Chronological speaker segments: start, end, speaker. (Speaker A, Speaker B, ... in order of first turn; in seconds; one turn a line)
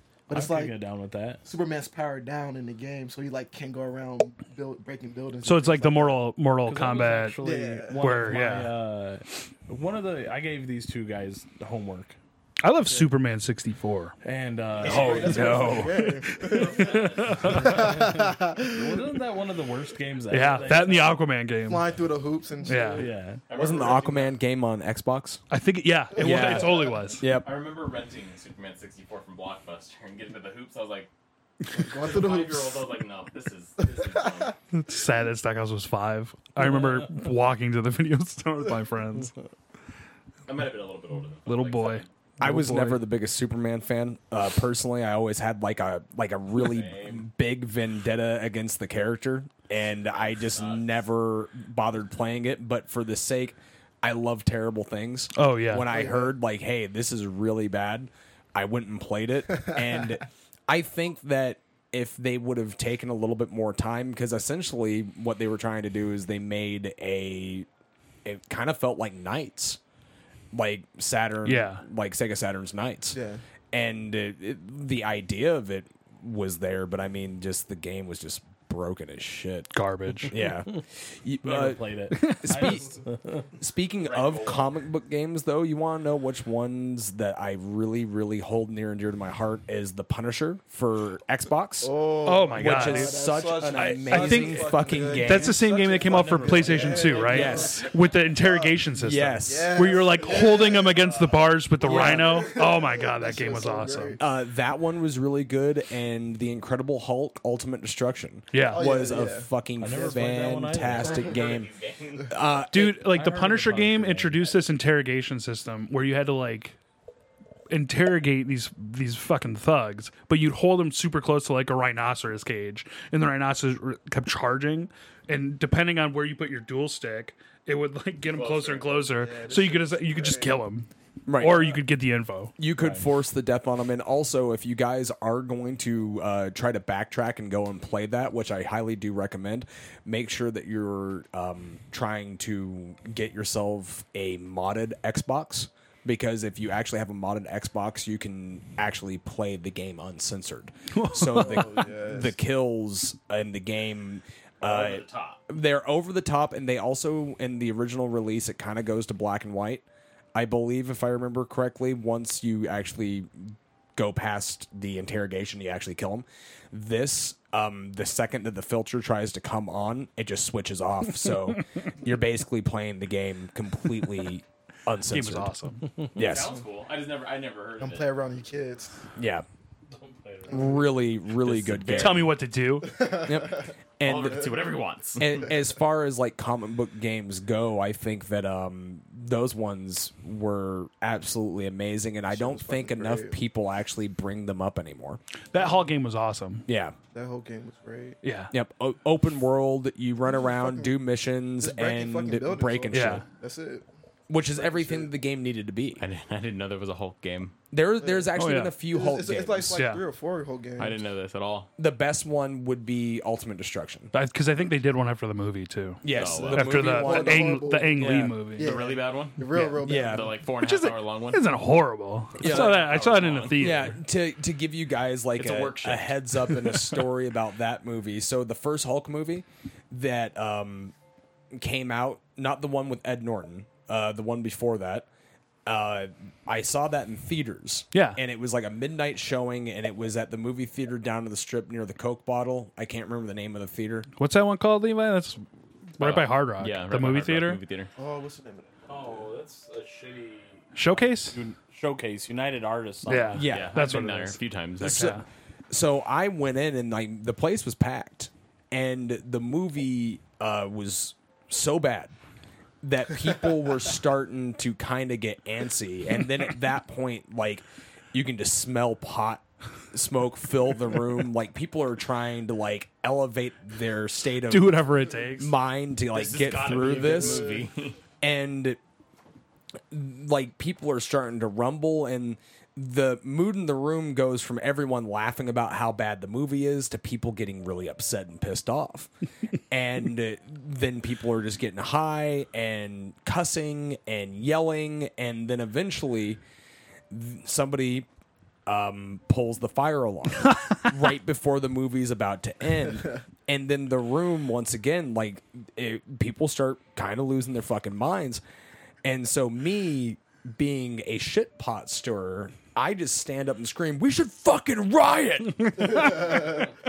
Speaker A: 0.3-0.8
Speaker B: 0.3-1.4
Speaker A: 1.4-6.3
Speaker C: 5.4-7.4
Speaker B: 6.7-12.2
Speaker A: 7.4-8.4
Speaker C: 8.0-8.8
Speaker C: 12.6-14.2
Speaker A: 12.8-13.1
Speaker B: 14.2-15.9
Speaker D: 14.8-15.9
Speaker C: 14.8-17.9
Speaker A: 14.9-19.1
Speaker D: 16.4-17.9
Speaker B: 17.4-21.1
Speaker C: 20.3-21.9
Speaker A: 21.7-24.1
Speaker C: 22.6-23.1
Speaker B: 22.9-23.4
Speaker D: 23.5-24.4
Speaker E: 23.5-25.4
Speaker C: 25.5-27.2
Speaker A: 26.2-27.1
Speaker E: 26.2-27.5
Speaker D: 27.4-31.1
Speaker A: 31.7-32.9
Speaker D: 31.8-34.6
Speaker A: 34.0-34.5
Speaker C: 34.7-39.3
Speaker D: 40.5-42.1
Speaker C: 41.5-43.0
Speaker E: 42.4-67.7
Speaker D: 46.6-47.2
Speaker D: 50.1-51.0
Speaker C: 55.3-55.9
Speaker A: 55.9-56.3
Speaker E: 68.2-69.8
Speaker E: 70.5-73.2
Speaker C: 71.5-71.8
Speaker A: 73.1-73.4
Speaker E: 73.7-79.7
Speaker C: 79.7-80.4
Speaker E: 80.3-83.0
Speaker B: 81.4-83.5
Speaker C: 82.2-82.6
Speaker E: 83.6-91.9
Speaker D: 84.0-84.7
Speaker A: 91.8-98.8
Speaker C: 92.2-104.2
Speaker E: 92.5-95.6
Speaker B: 96.0-97.5
Speaker E: 97.3-97.9
Speaker E: 99.0-99.8
Speaker A: 99.4-104.2
Speaker E: 101.8-102.5
Speaker E: 104.2-111.7
Speaker C: 108.5-109.1
Speaker A: 108.6-109.5
Speaker B: 109.8-111.2
Speaker D: 110.9-112.4
Speaker A: 111.1-111.5
Speaker E: 112.3-113.0
Speaker C: 112.7-116.8
Speaker B: 113.1-114.4
Speaker C: 117.7-132.5
Speaker D: 128.3-129.1
Speaker A: 129.1-130.6
Speaker E: 131.3-131.7
Speaker E: 132.6-175.5
Speaker B: 132.8-133.1
Speaker C: 150.9-151.7
Speaker A: 151.3-152.4
Speaker D: 154.6-155.4
Speaker C: 175.1-176.0
Speaker E: 176.1-176.5
Speaker D: 176.2-178.1
Speaker A: 177.8-179.1
Speaker E: 179.2-179.5
Speaker B: 179.9-180.7
Speaker A: 180.5-181.0
Speaker E: 180.5-182.3
Speaker D: 181.4-182.3
Speaker C: 181.9-183.1
Speaker A: 182.8-183.7
Speaker E: 183.2-184.5
Speaker D: 184.0-185.4
Speaker E: 185.2-195.2
Speaker A: 192.3-193.4
Speaker C: 195.5-196.7
Speaker A: 195.5-195.9
Speaker E: 196.7-196.9
Speaker A: 197.1-198.2
Speaker C: 198.2-198.5
Speaker E: 198.5-203.2
Speaker A: 200.3-200.9
Speaker A: 201.6-203.9
Speaker C: 202.9-203.2
Speaker E: 204.3-206.0
Speaker A: 204.5-205.1
Speaker D: 206.0-207.5
Speaker E: 207.7-209.8
Speaker A: 208.0-211.0
Speaker C: 208.3-208.8
Speaker C: 209.7-210.0
Speaker D: 210.8-211.7
Speaker E: 211.8-214.1
Speaker C: 214.1-218.8
Speaker E: 216.0-217.7
Speaker D: 216.1-216.8
Speaker A: 216.4-220.3
Speaker B: 218.0-218.3
Speaker D: 218.6-221.4
Speaker E: 219.6-220.3
Speaker C: 220.6-224.0
Speaker E: 222.4-223.0
Speaker D: 222.4-223.8
Speaker E: 223.6-230.9
Speaker D: 225.4-226.3
Speaker E: 231.5-235.1
Speaker E: 235.7-244.1
Speaker C: 237.9-238.2
Speaker C: 244.2-245.4
Speaker C: 246.0-247.6
Speaker D: 246.0-247.9
Speaker A: 248.0-249.3
Speaker B: 248.9-253.4
Speaker C: 250.7-251.4
Speaker C: 253.1-255.2
Speaker E: 253.3-253.8
Speaker D: 253.5-255.2
Speaker E: 254.8-255.2
Speaker E: 255.7-262.1
Speaker E: 262.8-277.5
Speaker C: 274.5-275.5
Speaker D: 276.1-278.0
Speaker A: 277.0-277.6
Speaker E: 278.2-278.8
Speaker E: 279.9-289.1
Speaker E: 289.7-296.4
Speaker E: 297.1-298.1
Speaker E: 298.7-308.4
Speaker E: 309.0-316.1
Speaker C: 315.6-316.6
Speaker A: 315.9-316.7